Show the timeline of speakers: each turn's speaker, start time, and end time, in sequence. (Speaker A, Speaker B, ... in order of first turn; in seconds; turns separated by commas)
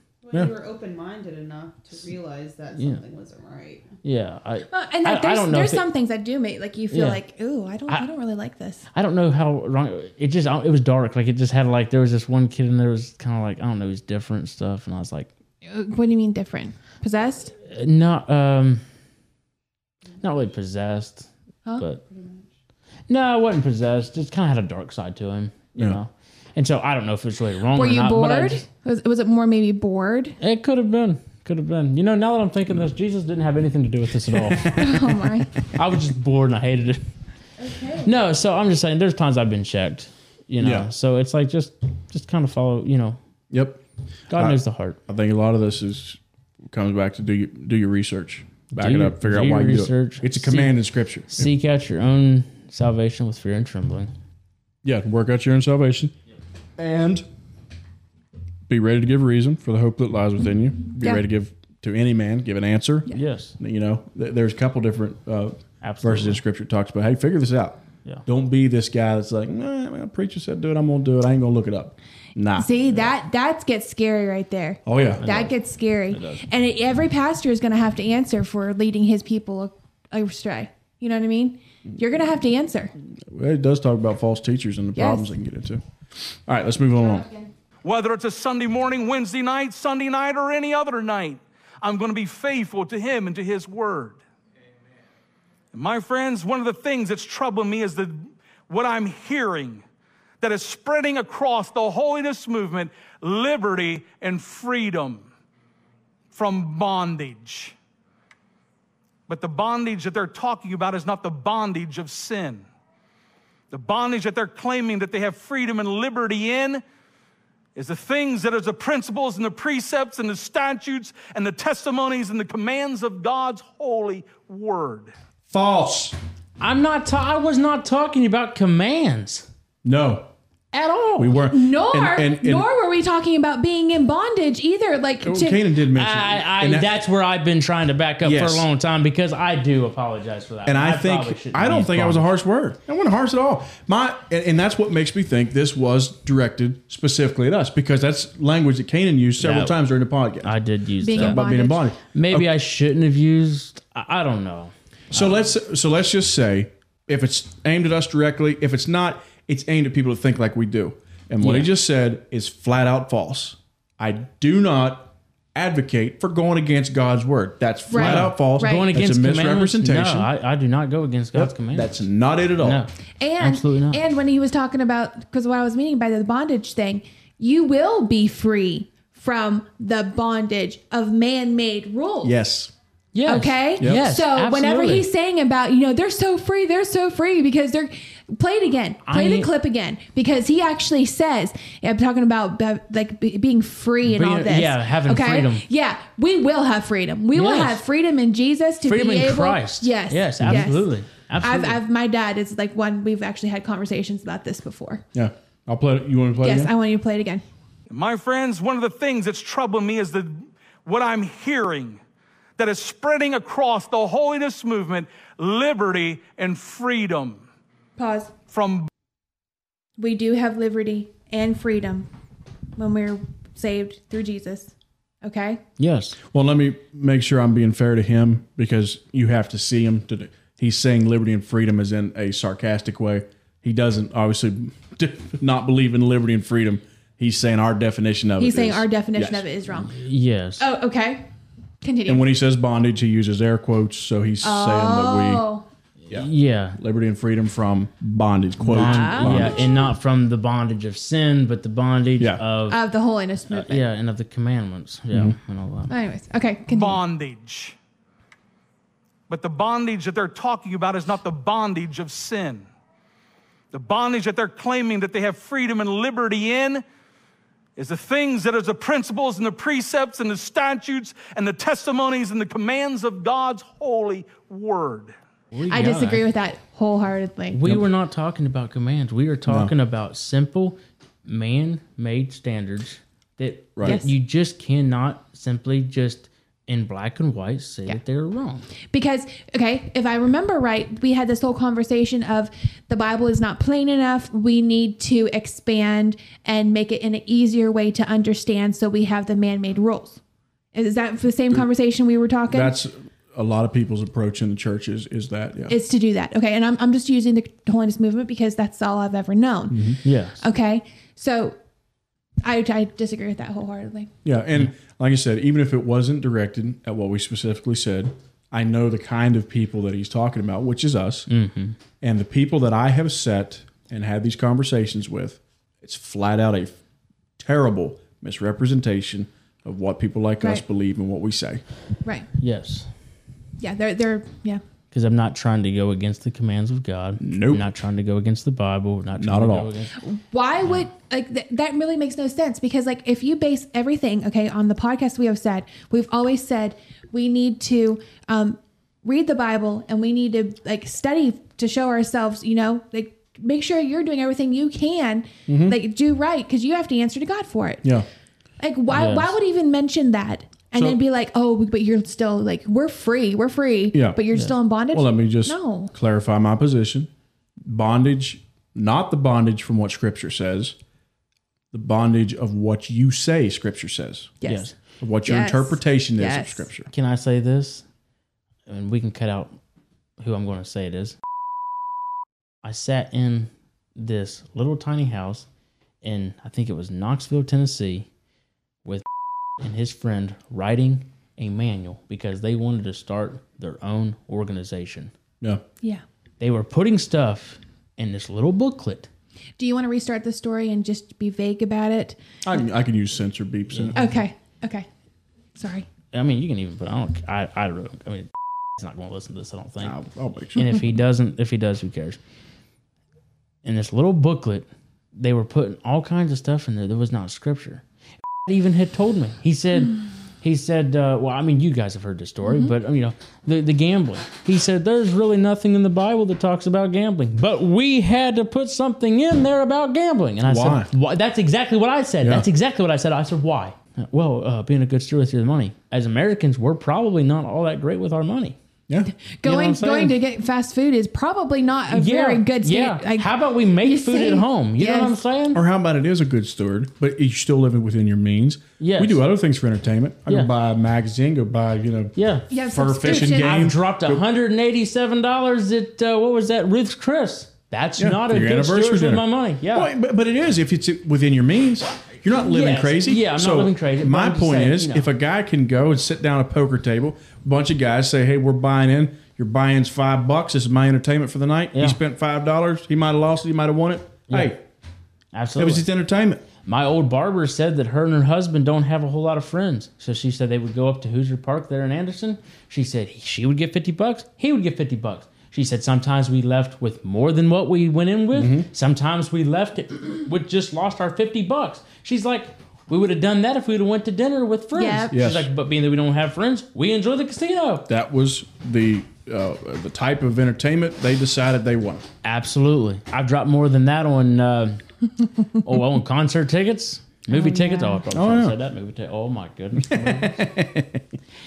Speaker A: 0.2-3.9, Speaker B: 2.8-3.0, Speaker B: 4.0-5.8, Speaker C: 4.7-8.8, Speaker B: 6.9-7.2, Speaker B: 8.9-15.3, Speaker C: 15.6-17.5, Speaker B: 17.6-18.8, Speaker B: 20.2-22.0, Speaker A: 22.1-22.4, Speaker B: 23.1-28.6, Speaker C: 27.7-30.4, Speaker B: 30.4-34.7, Speaker D: 34.3-34.9, Speaker C: 34.7-35.5, Speaker B: 35.7-37.0, Speaker C: 37.6-38.1, Speaker B: 38.0-43.2, Speaker D: 40.6-40.9, Speaker D: 43.5-43.8, Speaker B: 44.3-45.0, Speaker D: 44.3-46.2, Speaker D: 46.7-51.5, Speaker B: 48.7-54.1, Speaker D: 54.8-56.1, Speaker D: 56.8-57.2, Speaker D: 58.7-72.7, Speaker B: 63.1-63.5, Speaker B: 65.8-66.4, Speaker C: 72.5-82.9, Speaker D: 74.8-75.2, Speaker B: 75.2-75.5, Speaker B: 76.1-76.4, Speaker D: 83.3-85.8, Speaker C: 84.9-85.3, Speaker D: 86.3-87.3, Speaker C: 86.9-87.5, Speaker E: 87.8-94.2, Speaker E: 95.7-99.8, Speaker E: 100.4-105.3, Speaker E: 106.3-107.7, Speaker E: 109.3-112.7, Speaker E: 113.7-116.8, Speaker E: 117.7-125.1, Speaker D: 125.5-126.1, Speaker B: 126.6-129.5, Speaker D: 129.8-130.3, Speaker B: 130.7-131.4, Speaker D: 131.2-132.7, Speaker C: 131.5-135.6, Speaker D: 135.2-136.9, Speaker B: 135.9-142.3, Speaker D: 138.2-138.7, Speaker D: 140.7-150.5, Speaker B: 149.4-149.8, Speaker B: 150.4-151.4, Speaker C: 151.0-151.9, Speaker D: 151.1-152.5, Speaker B: 152.1-155.4, Speaker D: 155.1-170.3, Speaker B: 161.4-161.7, Speaker C: 167.9-168.9, Speaker B: 167.9-172.0, Speaker D: 171.3-172.8, Speaker B: 172.6-174.0, Speaker C: 173.2-182.3, Speaker D: 182.2-182.7, Speaker B: 183.1-185.1, Speaker C: 183.2-205.0, Speaker B: 189.1-189.5, Speaker B: 194.0-195.6, Speaker B: 197.3-197.8, Speaker B: 198.8-201.8, Speaker D: 200.4-200.7, Speaker D: 205.1-206.7, Speaker C: 206.4-207.4, Speaker E: 207.9-212.0, Speaker E: 212.6-217.4, Speaker C: 218.0-218.3, Speaker E: 218.5-218.9, Speaker C: 220.0-222.1, Speaker C: 222.8-225.6, Speaker B: 225.8-226.2, Speaker D: 226.3-239.4, Speaker C: 238.4-239.9, Speaker B: 239.9-240.7, Speaker C: 240.6-241.3, Speaker C: 241.8-242.2, Speaker D: 242.1-245.4, Speaker C: 244.4-245.7, Speaker B: 246.1-246.8, Speaker D: 246.1-249.7, Speaker B: 248.6-252.8, Speaker C: 248.7-249.8, Speaker C: 252.7-253.8, Speaker B: 253.5-255.9, Speaker D: 255.1-255.4, Speaker C: 255.9-257.0, Speaker E: 256.7-257.8, Speaker E: 259.3-262.7, Speaker E: 263.7-266.8, Speaker E: 267.8-275.1, Speaker B: 275.5-276.2, Speaker C: 275.7-277.6, Speaker B: 277.5-288.7, Speaker D: 279.5-279.7, Speaker C: 283.8-284.1, Speaker C: 288.9-300.2, Speaker C: 300.7-302.7, Speaker D: 302.5-305.8, Speaker C: 305.7-311.6, Speaker D: 309.7-310.0, Speaker B: 310.0-310.4, Speaker C: 312.4-314.1, Speaker D: 314.2-321.3, Speaker B: 321.3-321.8, Speaker D: 322.0-326.8, Speaker D: 327.4-331.6, Speaker B: 332.4-332.9, Speaker C: 333.6-334.6, Speaker B: 334.9-340.0, Speaker D: 337.2-337.6, Speaker D: 339.2-339.7, Speaker C: 340.0-357.9, Speaker D: 355.5-355.8, Speaker C: 358.6-365.9, Speaker B: 358.9-359.3, Speaker D: 360.7-361.0, Speaker D: 363.9-364.2, Speaker D: 364.9-367.1, Speaker D: 367.6-370.8, Speaker D: 371.7-374.3, Speaker C: 374.4-376.6, Speaker B: 374.4-374.7, Speaker D: 375.0-376.9, Speaker B: 376.9-377.8, Speaker B: 378.7-379.6, Speaker B: 380.2-381.2, Speaker B: 382.6-385.4, Speaker B: 386.0-388.1, Speaker B: 389.6-395.1, Speaker B: 396.4-399.1, Speaker C: 399.6-402.2, Speaker D: 402.4-404.0, Speaker C: 403.9-404.9, Speaker C: 405.6-405.9, Speaker B: 406.1-410.0, Speaker D: 409.8-410.9, Speaker B: 410.5-412.2, Speaker B: 413.6-417.8, Speaker B: 418.4-438.6, Speaker C: 422.4-422.7, Speaker D: 430.4-430.9, Speaker C: 439.1-445.1, Speaker B: 439.4-440.2, Speaker B: 441.9-445.6, Speaker D: 445.5-452.1, Speaker B: 448.8-449.2, Speaker B: 452.1-452.5, Speaker C: 452.5-453.7, Speaker D: 452.7-454.2, Speaker B: 453.0-459.9, Speaker D: 458.0-474.6, Speaker B: 462.3-465.1, Speaker B: 471.7-472.0, Speaker B: 474.3-474.5, Speaker B: 475.3-475.9, Speaker D: 475.6-476.4, Speaker B: 476.6-497.9, Speaker D: 488.3-488.7, Speaker C: 494.7-495.1, Speaker D: 495.1-495.5, Speaker D: 497.9-502.0, Speaker B: 502.2-504.8, Speaker B: 505.5-510.4, Speaker C: 507.3-508.0, Speaker D: 508.1-508.6, Speaker D: 509.8-511.0